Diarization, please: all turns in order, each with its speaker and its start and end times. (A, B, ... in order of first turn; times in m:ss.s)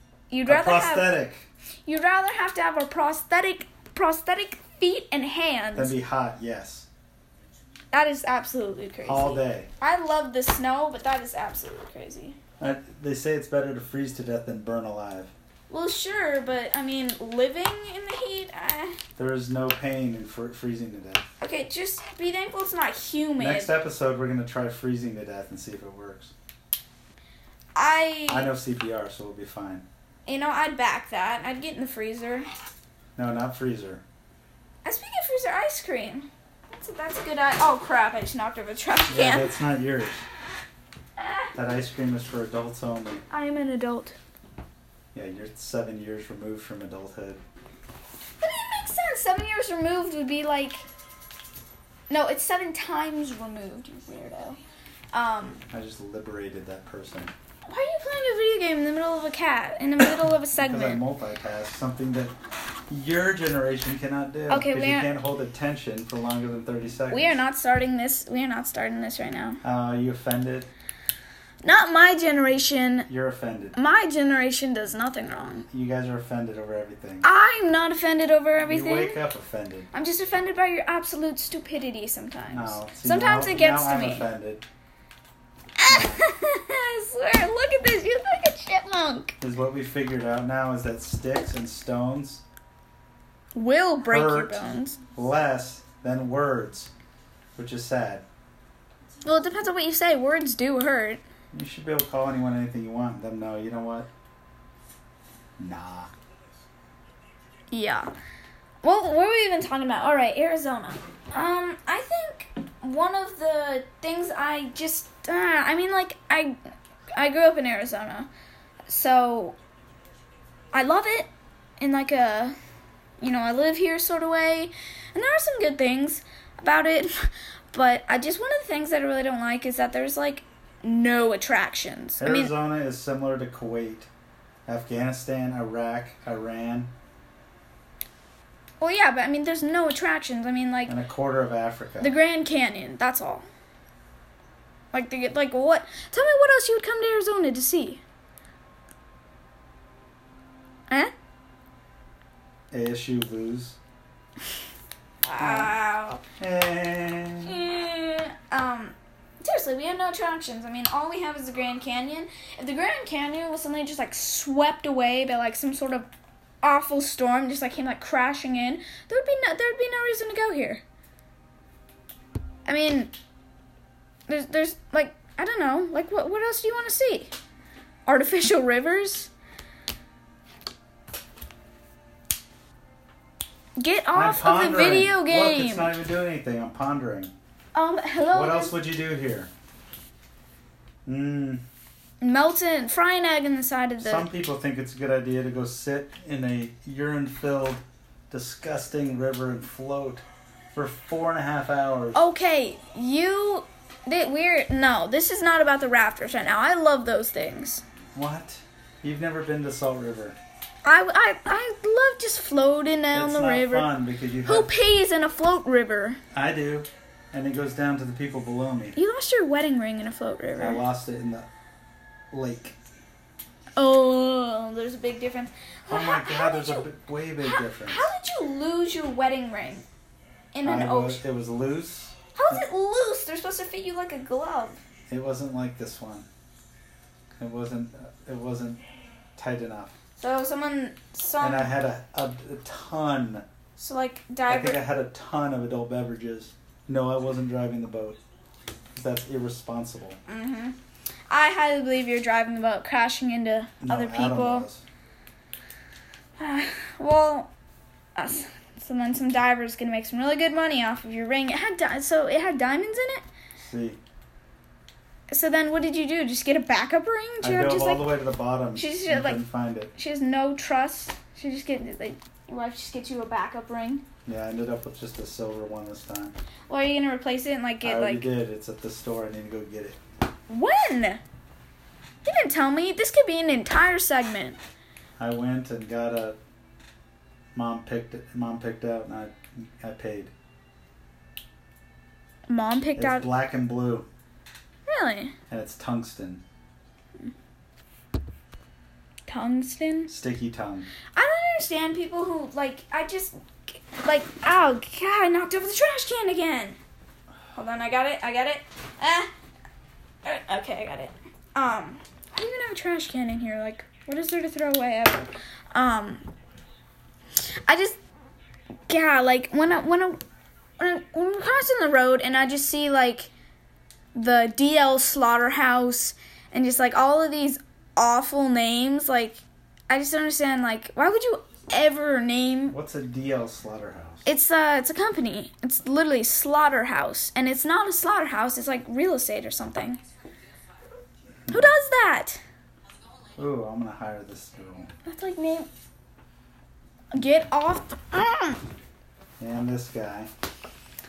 0:00.3-0:01.1 A
0:00.5-0:01.5 B
0:01.9-0:06.0 A
0:05.8-0:06.9 B
0:07.9-0:12.4 A
0:09.0-0:09.7 B
0:12.6-0:15.3 B
0:15.7-0:19.0 A
0:19.2-0:21.2 B
0:21.4-0:23.7 A
0:23.4-0:26.3 B
0:27.8-0:28.5 A
0:28.3-0:29.9 B
0:30.3-0:32.5 A
0:33.2-0:34.0 B
0:34.8-0:39.5 A
0:39.1-0:40.3 B
0:41.2-0:41.5 A
0:41.5-0:43.2 B
0:43.3-0:44.2 A
0:45.1-0:47.4 B
0:48.4-0:50.8 A
0:52.1-0:54.6 A
0:55.1-0:55.6 A
0:55.7-0:57.3 B
0:57.7-1:01.0 A
1:00.6-1:02.3 B
1:02.9-1:07.4 B
1:04.5-1:05.1 A
1:07.1-1:09.6 A
1:09.6-1:10.7 B
1:11.6-1:13.1 A
1:13.1-1:13.8 B
1:13.8-1:15.7 A
1:15.7-1:17.3 B
1:17.2-1:19.2 A
1:18.6-1:19.9 B
1:19.9-1:24.3 A
1:22.5-1:24.7 B
1:25.8-1:29.4 A
1:25.9-1:26.2 B
1:29.4-1:32.4 B
1:33.6-1:35.0 A
1:34.1-1:36.9 B
1:37.6-1:38.3 B
1:39.2-1:41.2 A
1:41.5-1:44.1 B
1:45.6-1:46.1 B
1:47.7-1:48.1 A
1:48.8-1:56.6 A
1:57.2-1:58.3 A
1:58.9-1:59.6 A
2:00.7-2:02.6 A
2:03.2-2:12.5 A
2:12.2-2:14.1 B
2:14.7-2:16.9 B
2:18.8-2:20.9 A
2:20.9-2:22.2 B
2:22.0-2:23.5 A
2:24.9-2:28.0 A
2:32.7-2:33.8 B
2:35.2-2:36.2 A
2:35.4-2:37.6 B
2:37.4-2:46.1 A
2:46.6-2:50.8 A
2:52.7-2:53.1 A
2:54.3-2:57.3 A
2:58.1-2:59.3 A
3:03.8-3:06.0 A
3:04.1-3:07.3 B
3:07.7-3:08.8 A
3:08.3-3:09.5 B
3:11.1-3:11.6 B
3:12.2-3:14.3 A
3:14.0-3:22.2 B
3:22.1-3:27.8 A
3:28.2-3:30.4 B
3:30.8-3:36.2 A
3:33.1-3:34.7 B
3:36.3-3:39.0 B
3:39.0-3:40.9 A
3:40.6-3:41.5 B
3:42.3-3:42.8 B
3:43.8-3:46.9 A
3:45.9-3:48.1 B
3:47.4-3:49.9 A
3:50.5-3:51.2 A
3:50.6-3:52.6 B
3:52.4-3:54.8 A
3:55.1-3:56.3 B
3:57.4-3:58.8 B
3:59.4-4:00.0 B
4:00.2-4:01.7 A
4:01.4-4:03.4 B
4:03.8-4:04.8 A
4:04.5-4:08.2 B
4:08.9-4:10.2 B
4:10.3-4:10.8 A
4:11.3-4:14.7 A
4:13.8-4:14.8 B
4:16.4-4:17.5 A
4:18.2-4:23.2 A
4:23.6-4:24.0 B
4:25.3-4:28.2 A
4:27.4-4:29.9 B
4:28.8-4:29.4 A
4:30.0-4:34.0 A
4:34.3-4:36.4 B
4:36.7-4:38.3 A
4:37.8-4:40.0 B
4:40.5-4:41.2 A
4:42.2-4:44.6 A
4:45.2-4:46.4 B
4:47.6-4:50.3 B
4:52.5-4:53.3 A
4:53.0-4:54.1 B
4:54.9-4:55.3 A
4:55.5-4:56.4 B
4:59.3-5:00.1 A
5:00.1-5:00.9 B
5:01.1-5:06.8 A
5:07.5-5:09.3 A
5:10.2-5:16.3 A
5:17.7-5:18.0 A
5:18.9-5:20.2 A
5:20.8-5:23.3 A
5:24.2-5:32.8 A
5:32.7-5:34.3 B
5:34.2-5:40.0 A
5:41.5-5:41.7 B
5:41.5-5:42.4 A
5:43.4-5:44.9 B
5:45.0-5:45.7 A
5:47.1-5:48.6 A
5:49.4-5:50.3 B